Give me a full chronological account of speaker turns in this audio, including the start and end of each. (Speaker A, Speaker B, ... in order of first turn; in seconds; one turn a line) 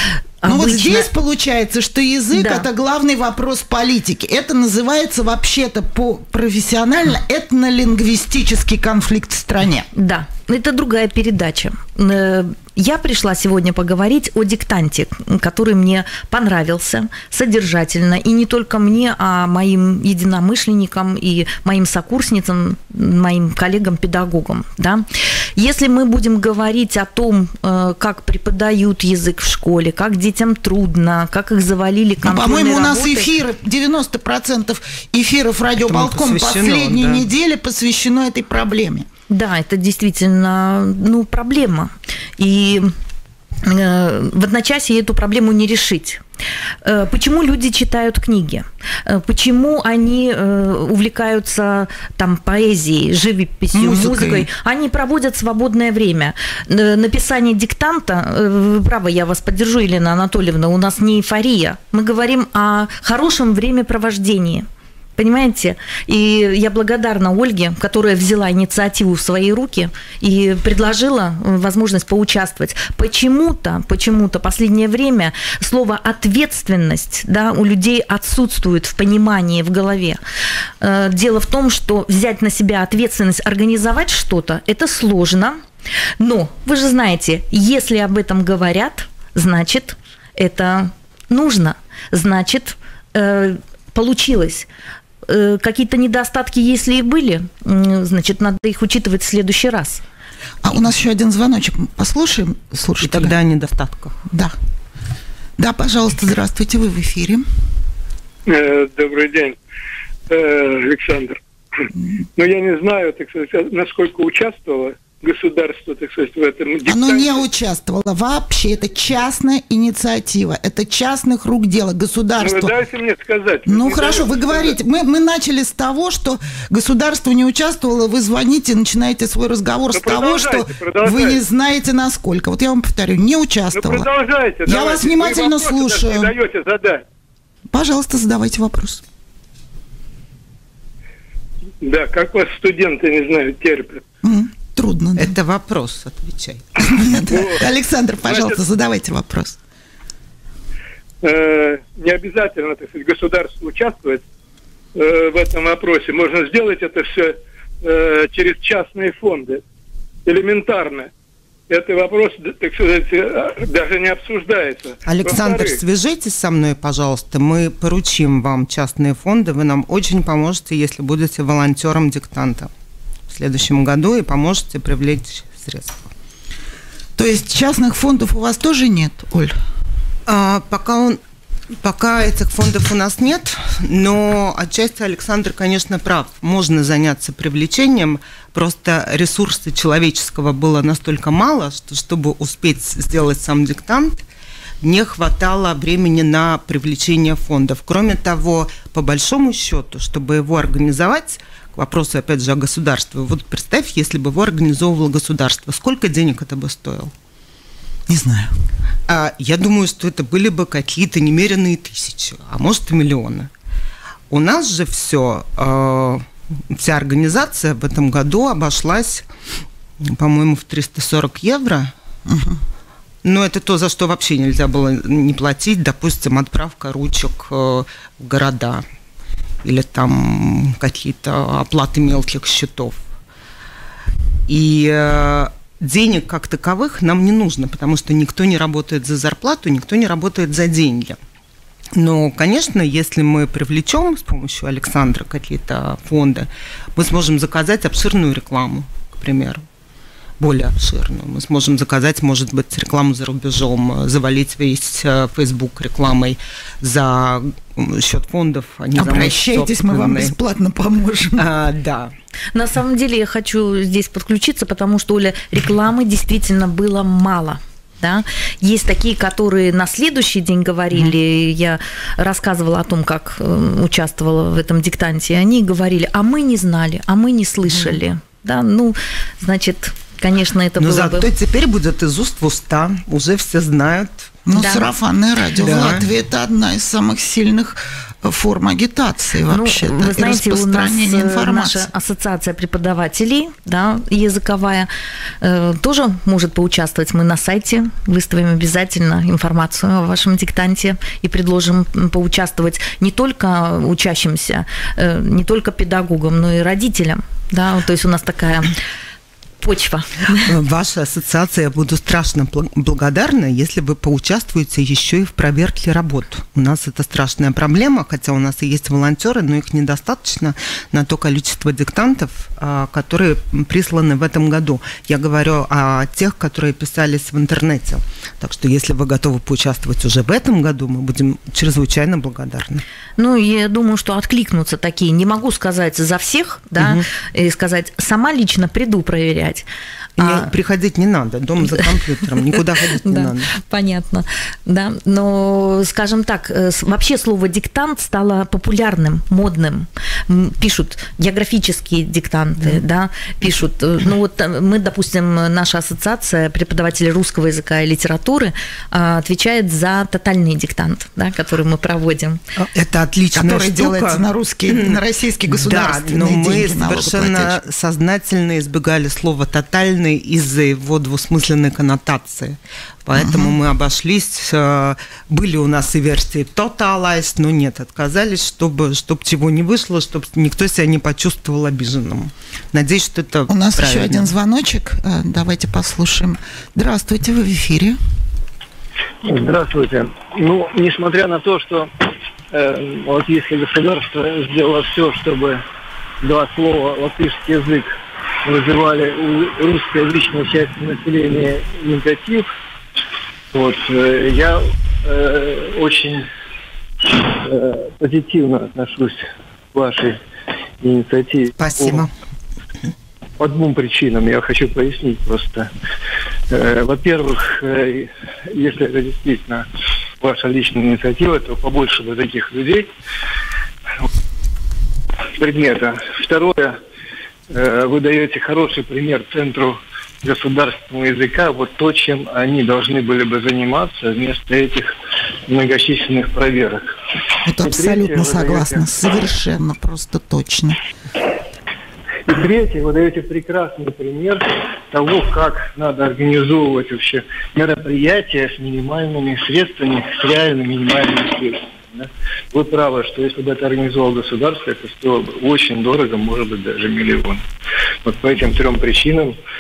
Speaker A: 0.4-1.1
Speaker B: 0.5-9.9
Speaker A: 2.3-2.7
Speaker A: 9.9-25.1
Speaker A: 25.6-33.3
Speaker B: 32.2-39.1
Speaker C: 35.8-37.3
Speaker A: 39.3-42.9
Speaker A: 43.6-46.2
Speaker A: 46.8-64.7
Speaker B: 53.7-54.5
Speaker A: 65.2-80.2
Speaker A: 80.8-85.6
Speaker A: 86.2-94.7
Speaker A: 95.3-100.0
Speaker B: 100.6-103.3
Speaker C: 103.0-104.2
Speaker B: 104.3-104.5
Speaker B: 105.6-107.5
Speaker D: 108.5-109.6
Speaker D: 110.3-111.4
Speaker D: 112.4-117.5
Speaker B: 116.9-122.7
Speaker D: 122.4-124.8
Speaker B: 123.7-134.1
Speaker D: 129.9-131.4
Speaker D: 133.7-137.0
Speaker B: 134.7-136.3
Speaker B: 137.7-139.0
Speaker D: 141.8-144.0
Speaker B: 144.2-145.3
Speaker C: 145.2-147.2
Speaker B: 146.8-149.6
Speaker D: 147.3-147.6
Speaker D: 148.2-148.6
Speaker D: 151.2-154.2
Speaker D: 154.9-159.6
Speaker D: 160.3-161.1
Speaker D: 161.7-165.8
Speaker C: 165.1-172.7
Speaker C: 173.3-176.1
Speaker B: 177.2-179.6
Speaker C: 180.3-181.2
Speaker C: 181.8-194.2
Speaker C: 194.8-207.1
Speaker B: 208.1-208.5
Speaker C: 209.1-213.5
Speaker C: 214.3-219.3
Speaker C: 220.0-221.9
Speaker B: 222.3-222.6
Speaker C: 223.2-228.8
Speaker C: 229.6-233.0
Speaker C: 234.5-241.2
Speaker C: 242.0-249.6
Speaker C: 250.4-260.3
Speaker B: 259.0-261.4
Speaker C: 261.4-262.1
Speaker A: 262.6-281.3
Speaker C: 280.8-284.3
Speaker B: 284.5-291.9
Speaker A: 284.5-284.9
Speaker C: 285.6-286.1
Speaker A: 289.5-294.9
Speaker A: 295.4-308.7
Speaker A: 309.6-310.5
Speaker C: 310.4-332.8
Speaker A: 333.2-339.7
Speaker C: 336.8-337.1
Speaker A: 340.2-340.5
Speaker C: 340.2-343.5
Speaker A: 343.0-362.4
Speaker C: 362.6-384.3
Speaker B: 363.4-367.6
Speaker B: 373.1-373.6
Speaker B: 383.5-388.0
Speaker E: 389.2-391.9
Speaker E: 392.5-395.6
Speaker E: 396.2-397.9
Speaker E: 398.4-402.5
Speaker E: 403.5-406.3
Speaker E: 407.1-410.2
Speaker E: 410.8-412.1
Speaker C: 411.6-412.1
Speaker E: 413.4-415.7
Speaker E: 416.5-419.6
Speaker E: 420.2-422.9
Speaker E: 425.4-426.8
Speaker E: 427.5-434.9
Speaker E: 435.5-436.8
Speaker B: 437.5-440.8
Speaker E: 437.5-438.9
Speaker E: 442.3-457.4
Speaker E: 458.1-459.4